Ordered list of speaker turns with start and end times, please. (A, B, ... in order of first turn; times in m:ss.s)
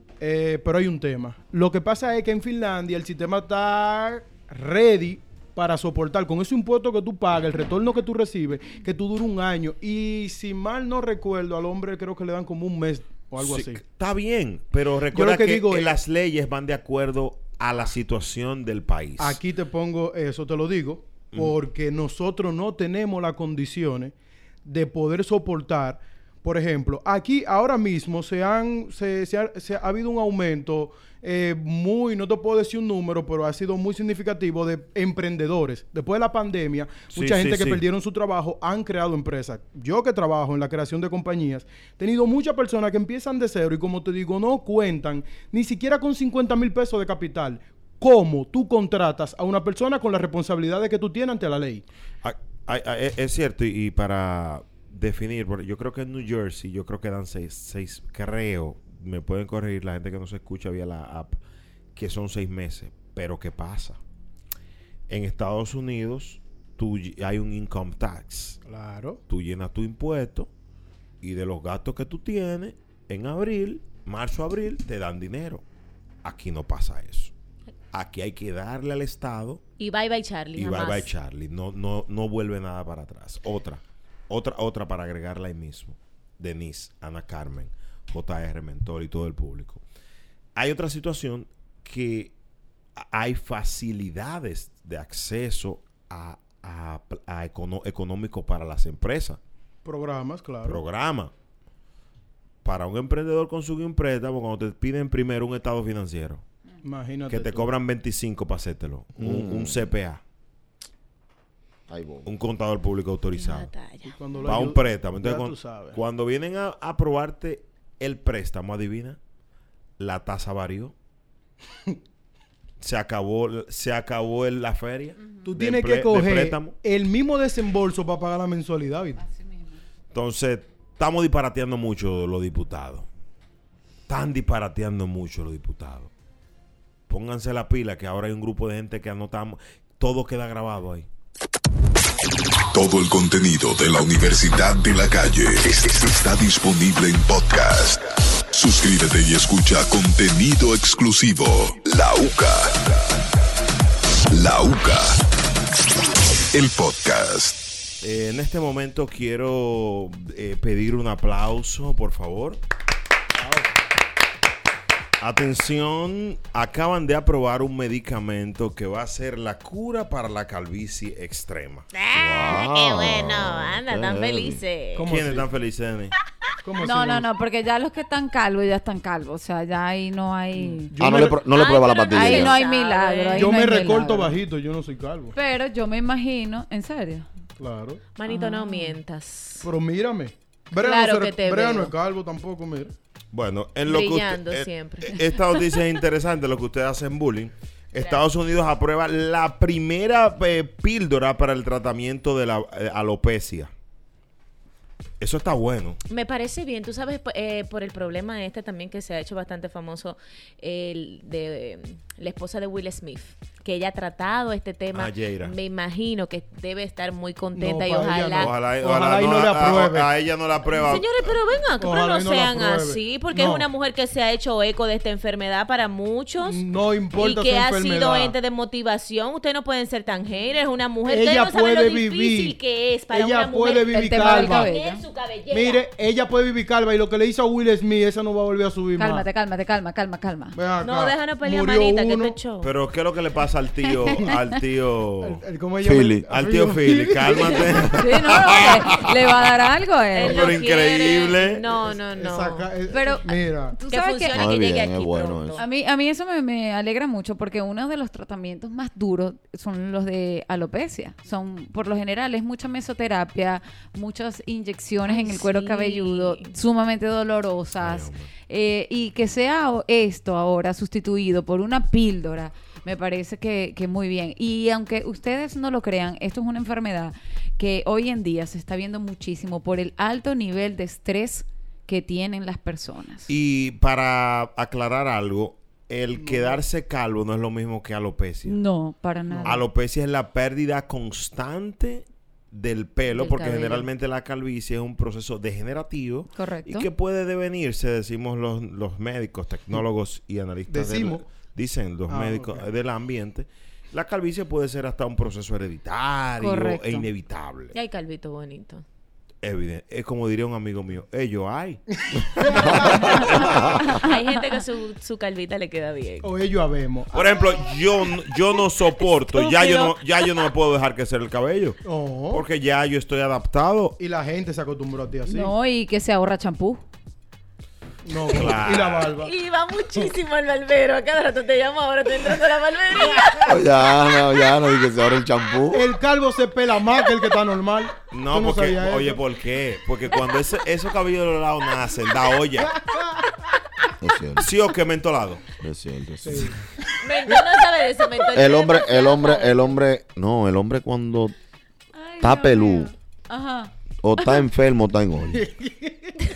0:00.2-0:13.8 A
0:13.4-0:19.4 B
0:15.1-0:16.0 A
0:19.2-0:24.1 A
0:21.3-0:21.6 B
0:24.6-0:51.8 A
0:37.1-0:37.8 B
0:52.2-1:01.4 B
1:02.0-1:04.0 B
1:05.1-1:08.6 B
1:08.6-1:09.2 A
1:09.3-1:10.5 B
1:11.2-1:15.6 B
1:16.2-1:17.3 B
1:17.9-1:19.6 B
1:19.8-1:21.1 C
1:20.6-1:29.8 B
1:30.6-1:32.3 B
1:33.0-1:39.4 B
1:39.8-1:40.8 A
1:40.6-1:41.3 B
1:42.6-1:46.4 B
1:46.8-1:47.7 A
1:47.3-1:50.2 B
1:49.2-1:49.9 D
1:51.9-1:52.3 D
1:52.2-1:53.7 B
1:53.3-1:54.5 C
1:54.1-1:56.0 A
1:54.4-1:59.2 B
2:00.0-2:00.9 B
2:02.8-2:06.8 B
2:05.2-2:05.5 E
2:05.4-2:09.2 A
2:09.2-2:09.8 E
2:10.1-2:13.1 B
2:14.1-2:16.1 B
2:17.1-2:21.1 B
2:22.7-2:33.1 F
2:34.3-2:35.2 F
2:36.5-2:37.6 F
2:38.0-2:42.6 B
2:45.2-2:51.9 B
2:51.9-2:55.1 C
2:52.1-2:54.6 D
2:55.0-2:55.5 A
2:55.1-2:56.1 B
2:56.6-2:57.3 A
2:56.8-3:00.9 E
3:00.6-3:01.4 A
3:01.0-3:02.6 D
3:01.3-3:03.6 C
3:02.1-3:04.4 E
3:03.4-3:05.4 A
3:05.4-3:07.3 E
3:07.6-3:08.0 A
3:08.2-3:09.7 C
3:08.3-3:09.0 E
3:09.6-3:12.9 A
3:10.8-3:11.9 C
3:13.3-3:23.7 B
3:13.9-3:15.2 C
3:18.0-3:18.2 C
3:25.2-3:26.0 B
3:26.1-3:38.5 C
3:34.9-3:35.6 B
3:37.6-3:40.2 A
3:38.4-3:41.3 B
3:40.7-3:46.6 C
3:41.8-3:43.7 A
3:46.4-3:48.3 A
3:47.2-3:55.9 C
3:51.0-3:52.6 A
3:53.1-3:54.7 A
3:53.9-3:55.0 E
3:55.5-3:59.2 A
3:59.0-4:00.6 E
4:00.6-4:02.4 A
4:00.8-4:02.7 C
4:02.6-4:05.4 B
4:03.9-4:04.4 E
4:04.1-4:04.4 A
4:05.2-4:08.1 A
4:05.8-4:06.3 D
4:06.3-4:09.5 B
4:07.9-4:10.5 E
4:10.1-4:12.7 C
4:10.2-4:11.6 B
4:12.1-4:13.8 A
4:12.9-4:14.4 E
4:13.9-4:15.6 C
4:14.3-4:15.6 D
4:15.6-4:43.3 E
4:25.1-4:26.5 C
4:27.8-4:28.3 B
4:43.3-4:48.6 B
4:46.2-4:46.6 A
4:48.4-4:49.6 E
4:49.3-4:49.6 A
4:49.5-5:07.8 B
4:53.2-4:53.8 C
4:56.3-4:56.9 E
5:00.7-5:01.2 A
5:02.1-5:02.7 A
5:06.4-5:07.1 E
5:07.7-5:08.8 C
5:09.4-5:11.8 B
5:12.1-5:13.3 A
5:12.7-5:13.8 D
5:12.8-5:13.6 B
5:14.0-5:16.3 C
5:16.2-5:17.6 A
5:17.1-5:21.8 B
5:19.3-5:20.3 C
5:21.8-5:22.4 A
5:22.3-5:24.0 B
5:24.0-5:25.5 A
5:25.3-5:26.8 E
5:28.0-5:29.3 A
5:28.3-5:29.2 B
5:29.2-5:33.6 C
5:33.4-5:35.9 D
5:35.7-5:39.2 A
5:38.1-5:42.8 B
5:42.8-5:43.4 A
5:44.0-5:44.5 D
5:44.4-5:45.4 B
5:45.6-5:46.6 D
5:46.2-5:46.6 A
5:47.0-5:49.7 C
5:48.3-5:51.3 D
5:52.0-5:54.4 E
5:52.2-5:52.9 D
5:54.0-5:55.4 D
5:55.3-5:56.3 A